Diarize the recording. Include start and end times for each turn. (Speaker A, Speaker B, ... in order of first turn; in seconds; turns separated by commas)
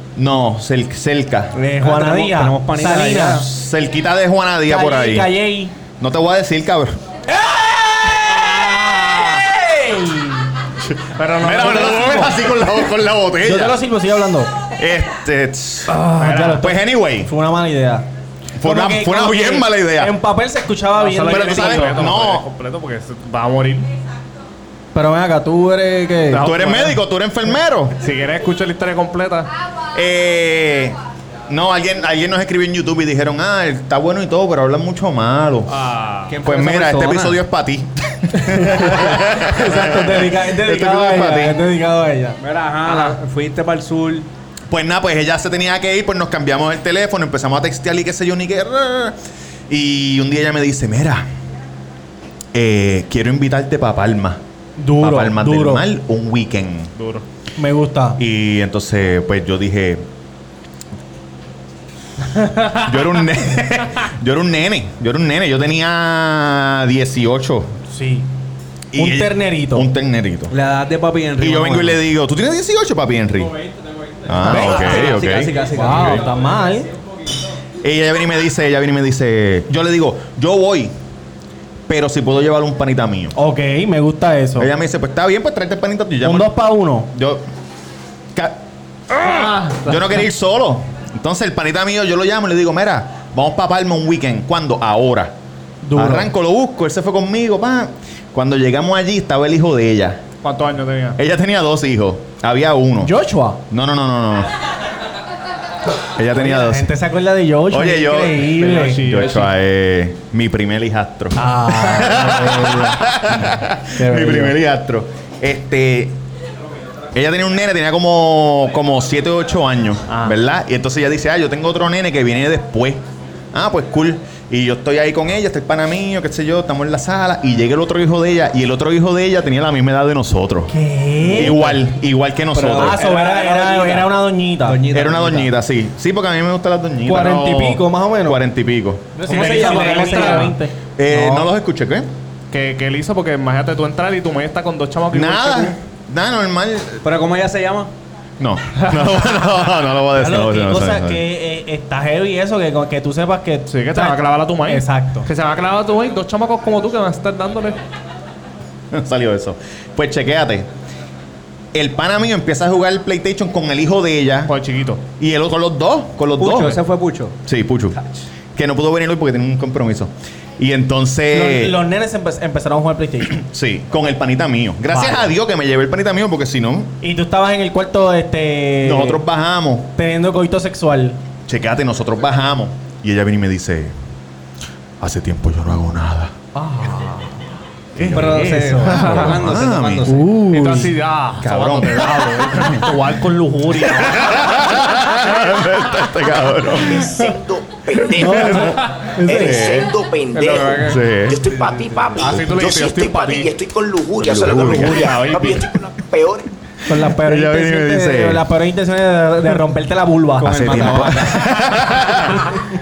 Speaker A: 0.2-1.6, Speaker B: 1.6-3.4, Speaker C: 1.8-3.5, Speaker A: 3.4-5.3, Speaker B: 4.7-5.7, Speaker A: 6.0-7.0, Speaker B: 7.3-10.5, Speaker D: 11.2-12.4, Speaker A: 11.4-13.8, Speaker B: 11.6-12.3, Speaker B: 13.4-14.5, Speaker A: 14.8-17.3, Speaker D: 15.9-16.7, Speaker B: 16.0-18.1, Speaker A: 18.6-20.2, Speaker B: 18.6-22.1, Speaker D: 20.9-23.9, Speaker A: 21.2-22.5, Speaker B: 24.9-26.5, Speaker D: 26.3-27.0, Speaker A: 26.4-27.9, Speaker D: 28.0-29.5, Speaker A: 29.9-31.0, Speaker A: 31.5-35.7, Speaker D: 35.7-36.4, Speaker C: 36.3-37.4, Speaker A: 36.4-41.6, Speaker B: 38.5-42.4, Speaker C: 42.4-44.3, Speaker D: 42.9-43.2, Speaker A: 44.7-49.2, Speaker A: 49.7-51.3, Speaker A: 52.5-54.4, Speaker B: 54.8-55.9, Speaker A: 55.0-56.9, Speaker D: 57.0-57.2, Speaker B: 57.6-58.2, Speaker A: 58.2-60.0, Speaker D: 62.4-62.8, Speaker A: 62.8-67.7, Speaker B: 67.9-68.3, Speaker A: 68.9-70.5, Speaker B: 69.0-69.9, Speaker C: 70.5-72.0, Speaker A: 71.4-73.6, Speaker A: 74.3-76.1, Speaker D: 74.5-75.3, Speaker C: 74.6-76.3, Speaker B: 75.7-76.9, Speaker A: 77.8-80.9, Speaker A: 81.9-83.3, Speaker B: 83.3-84.7, Speaker A: 84.6-86.5, Speaker B: 86.2-87.1, Speaker A: 87.1-87.4, Speaker A: 89.1-95.3, Speaker B: 95.8-96.3, Speaker A: 96.0-100.2, Speaker D: 100.4-101.2, Speaker A: 101.2-103.1, Speaker B: 103.0-103.6, Speaker A: 103.7-104.5, Speaker A: 106.2-106.9, Speaker B: 106.3-109.0, Speaker A: 107.7-116.2, Speaker D: 108.5-109.5, Speaker B: 111.3-113.0, Speaker B: 114.0-114.6, Speaker A: 117.1-130.7, Speaker D: 120.1-120.4, Speaker B: 130.7-131.8, Speaker A: 131.3-133.1, Speaker C: 132.6-135.5, Speaker B: 132.6-134.8, Speaker A: 134.9-137.5, Speaker B: 137.1-138.4, Speaker D: 137.2-137.8, Speaker A: 138.2-139.1, Speaker B: 139.2-141.5, Speaker C: 139.2-140.5, Speaker D: 139.3-140.5, Speaker A: 141.0-142.1, Speaker D: 142.5-145.8, Speaker A: 145.1-147.0, Speaker C: 147.0-147.9, Speaker A: 148.4-151.2, Speaker B: 150.2-155.3, Speaker D: 153.7-157.8, Speaker A: 158.9-160.7, Speaker A: 161.7-164.5, Speaker D: 164.5-165.0, Speaker A: 165.2-166.8, Speaker C: 166.4-167.3, Speaker A: 167.4-168.0, Speaker C: 168.0-168.2, Speaker A: 168.6-171.8, Speaker B: 171.3-173.4, Speaker A: 173.3-176.9, Speaker B: 174.9-175.3, Speaker B: 177.0-179.2, Speaker A: 178.8-179.9, Speaker B: 179.9-181.2, Speaker A: 181.5-183.9, Speaker A: 185.0-186.3, Speaker B: 186.6-187.4, Speaker A: 188.0-190.2, Speaker B: 188.0-189.3, Speaker C: 188.1-190.3, Speaker B: 190.1-190.9, Speaker D: 190.5-194.8, Speaker A: 191.4-193.0, Speaker A: 193.7-197.3, Speaker E: 196.7-198.6, Speaker B: 198.0-199.7, Speaker A: 198.2-199.9, Speaker D: 198.8-199.1, Speaker E: 199.2-206.4, Speaker D: 200.3-201.1, Speaker A: 200.8-201.5, Speaker D: 202.2-203.5, Speaker A: 204.2-205.1, Speaker D: 204.3-205.8, Speaker B: 206.9-211.3, Speaker A: 206.9-208.4, Speaker C: 210.4-211.5, Speaker A: 210.4-212.5